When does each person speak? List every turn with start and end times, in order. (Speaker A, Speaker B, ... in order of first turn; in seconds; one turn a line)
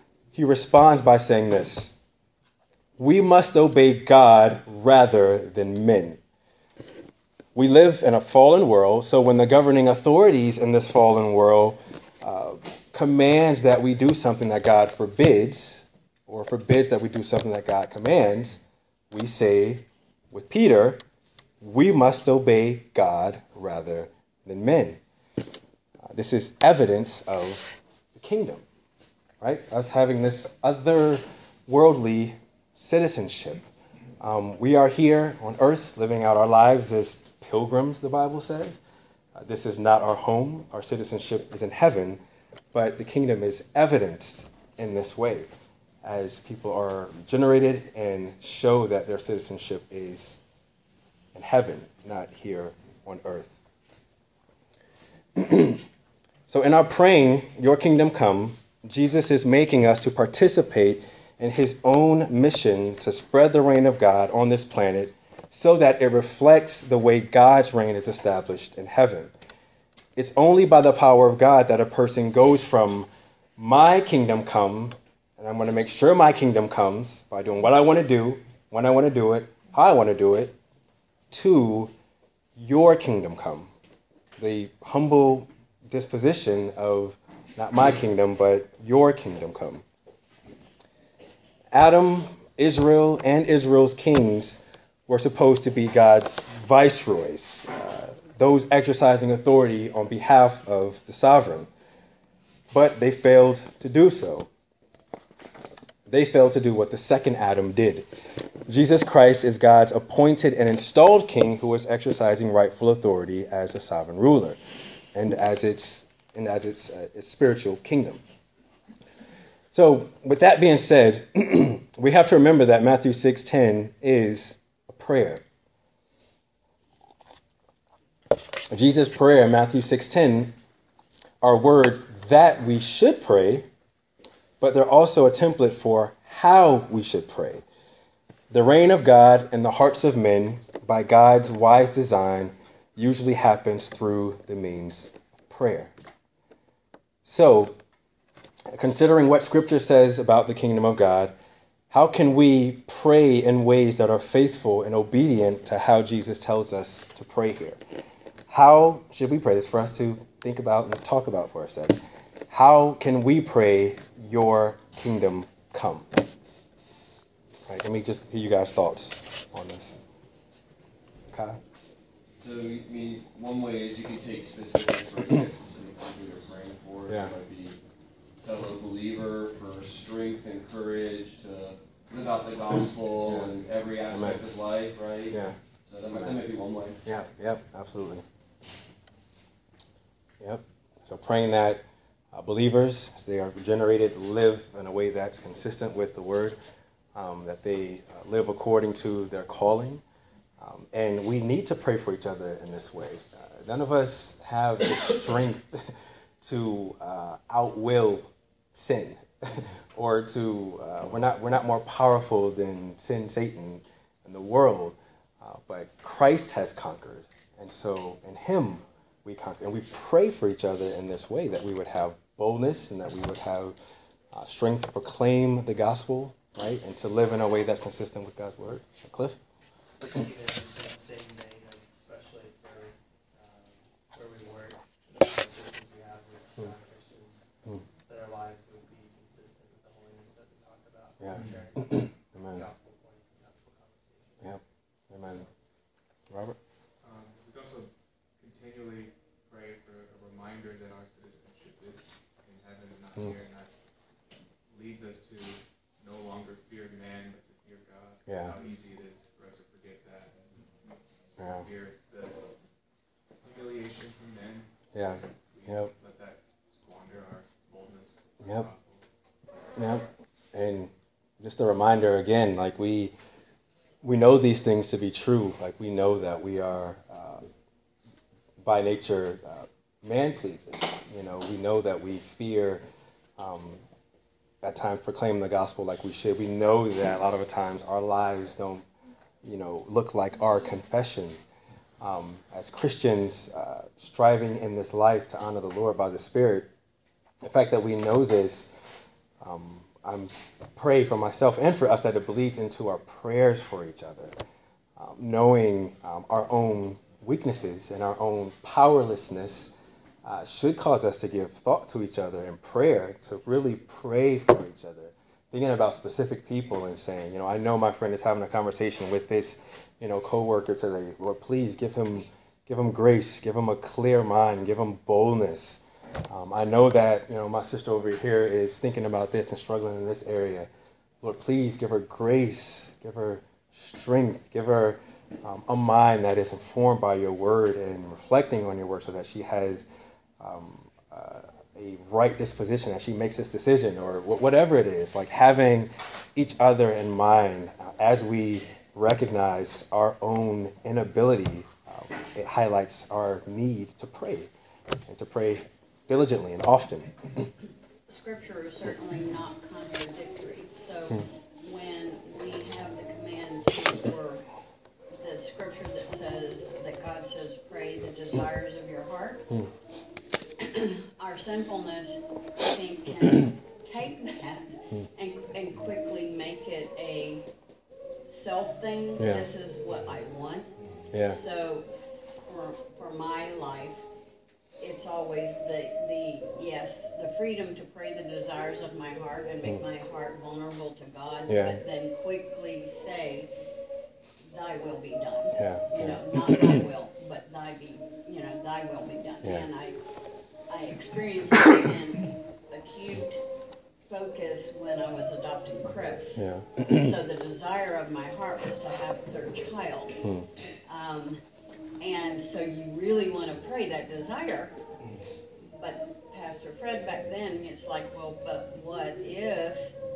Speaker A: 0.3-2.0
Speaker A: 3.0-6.2
Speaker A: 7.5-21.0
Speaker A: 21.6-25.0
Speaker A: 26.0-28.6
Speaker A: 29.4-33.6
Speaker A: 34.2-38.8
Speaker A: 39.4-42.2
Speaker A: 42.7-45.5
Speaker A: 46.0-50.4
Speaker A: 51.4-53.6
Speaker A: 55.4-55.8
Speaker A: 56.5-69.3
Speaker A: 70.2-80.5
Speaker A: 81.3-81.9
Speaker A: 82.5-83.7
Speaker A: 84.4-89.8
Speaker A: 91.7-101.7
Speaker A: 102.7-104.5
Speaker A: 106.1-108.1
Speaker A: 108.7-114.6
Speaker A: 115.1-118.2
Speaker A: 119.7-125.4
Speaker A: 128.7-130.5
Speaker A: 131.4-133.7
Speaker A: 134.6-137.6
Speaker A: 138.5-145.9
Speaker A: 147.2-147.7
Speaker A: 148.7-151.3
Speaker A: 151.9-157.8
Speaker A: 158.5-166.1
Speaker A: 167.7-170.0
Speaker A: 171.3-171.6
Speaker B: 172.4-177.8
Speaker A: 177.1-177.3
Speaker B: 178.4-187.0
Speaker A: 184.1-184.4
Speaker A: 185.3-185.6
Speaker A: 186.1-186.4
Speaker A: 187.0-188.2
Speaker A: 190.4-196.6
Speaker A: 197.2-200.0
Speaker A: 200.6-205.9
Speaker A: 206.4-223.8
Speaker A: 224.3-229.4
Speaker C: 230.0-244.6
Speaker A: 241.2-242.6
Speaker A: 244.4-245.4
Speaker C: 245.2-245.5
Speaker A: 246.3-246.6
Speaker D: 247.0-253.7
Speaker D: 254.7-262.4
Speaker A: 258.2-258.5
Speaker A: 261.4-261.6
Speaker D: 263.4-269.1
Speaker A: 264.9-265.9
Speaker A: 268.4-268.7
Speaker A: 269.8-273.1
Speaker A: 274.0-277.4
Speaker A: 278.6-282.8
Speaker A: 283.4-283.8
Speaker A: 284.6-288.8
Speaker A: 289.4-291.5
Speaker A: 292.0-296.7
Speaker A: 297.4-298.7
Speaker A: 299.4-304.3
Speaker A: 305.0-330.7
Speaker A: 331.2-339.9
Speaker A: 340.4-354.5
Speaker A: 355.1-357.1
Speaker E: 358.1-364.4
Speaker E: 365.1-369.4
Speaker E: 370.6-377.4
Speaker E: 378.3-381.9
Speaker A: 379.2-379.5
Speaker A: 381.1-381.4
Speaker E: 382.5-384.0
Speaker E: 384.8-393.5
Speaker A: 391.5-391.8
Speaker E: 394.5-400.0
Speaker A: 395.6-396.8
Speaker E: 400.7-403.4
Speaker E: 404.1-410.1
Speaker A: 406.4-406.8
Speaker A: 410.2-410.5
Speaker E: 410.9-411.4
Speaker E: 412.0-414.7
Speaker E: 415.7-419.9